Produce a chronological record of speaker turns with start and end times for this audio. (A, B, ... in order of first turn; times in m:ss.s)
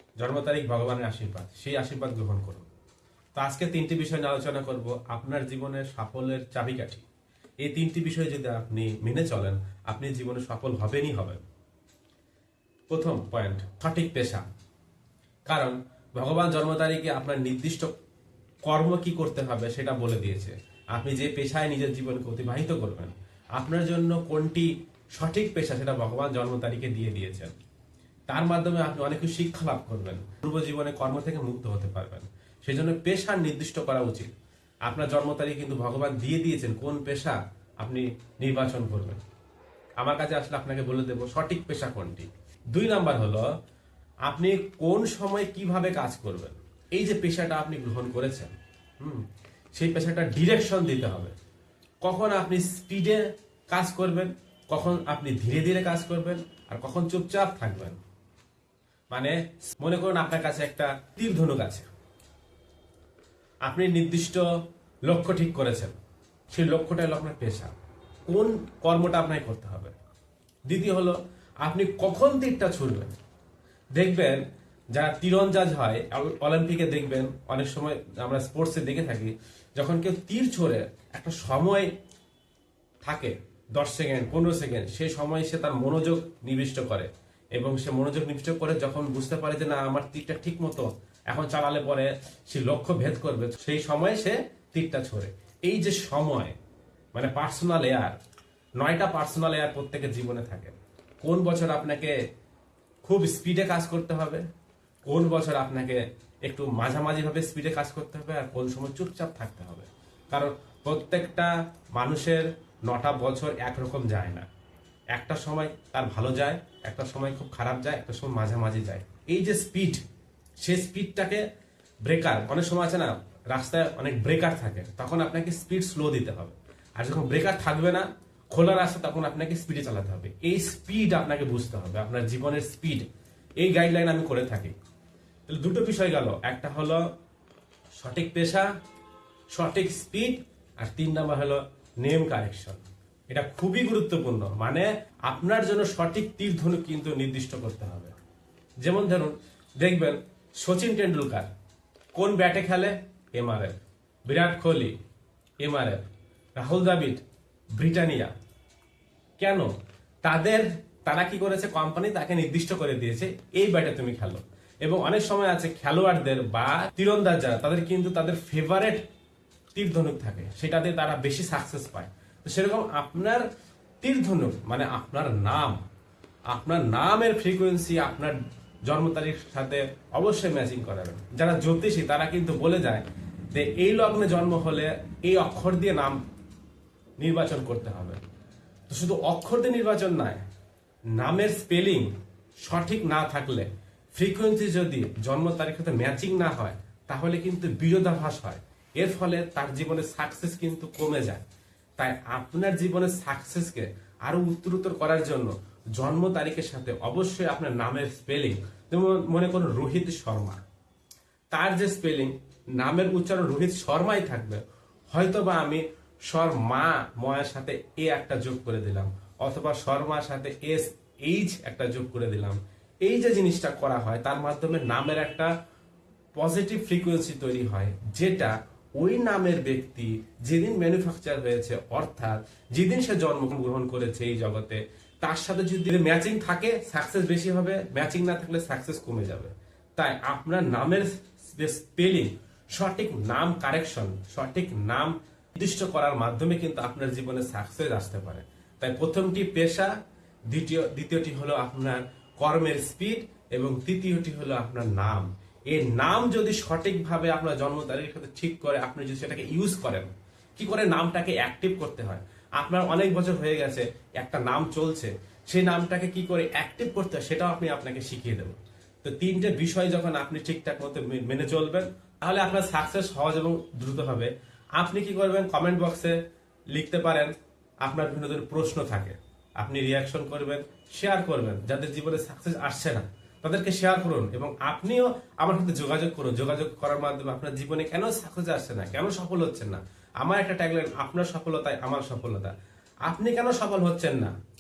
0:00.2-0:02.7 A
0:03.3-0:07.0 A
0:07.6-0:11.4 A
0:12.9-0:14.4 A
0:15.5-0:17.9 A
0:18.6-0:27.5 A
0:28.3-0:34.3 A
0:34.8-0:39.2 A
0:40.0-0:43.5 A
0:44.2-0:51.3 A
0:52.0-0:58.0 A
0:59.1-1:01.9 A
1:03.6-1:04.5 A
1:05.1-1:05.9 A
1:06.5-1:07.7 A
1:08.3-1:09.9 A
1:10.7-1:13.1 A
1:13.9-1:14.4 A
1:14.9-1:21.9 A
1:23.0-1:36.5 A
1:37.1-1:38.2 A
1:38.8-1:42.2 A
1:43.0-1:44.4 A
1:45.0-1:54.5 A
1:55.1-2:00.0 A
2:00.6-2:01.4 A
2:02.0-2:13.1 A
2:13.6-2:14.7 A
2:15.5-2:17.0 A
2:18.0-2:18.7 A
2:19.5-2:28.1 A
2:28.8-2:31.5 A
2:32.2-2:34.9 A
2:35.6-2:36.0 A
2:36.6-2:37.2 A
2:37.8-2:38.3 A
2:39.4-2:39.7 A
2:40.2-2:49.0 A
2:49.7-2:53.4 A
2:54.0-2:55.8 A
2:56.5-2:58.4 A
2:58.9-3:06.2 A
3:07.2-3:08.2 A
3:08.9-3:10.4 A
3:11.2-3:12.1 A
3:12.6-3:21.4 A
3:22.0-3:30.6 A
3:31.5-3:45.5 A
3:46.4-4:09.9 A
4:10.5-4:36.2 A
4:36.7-4:37.3 A
4:37.8-4:52.5 A
4:53.0-4:54.3 A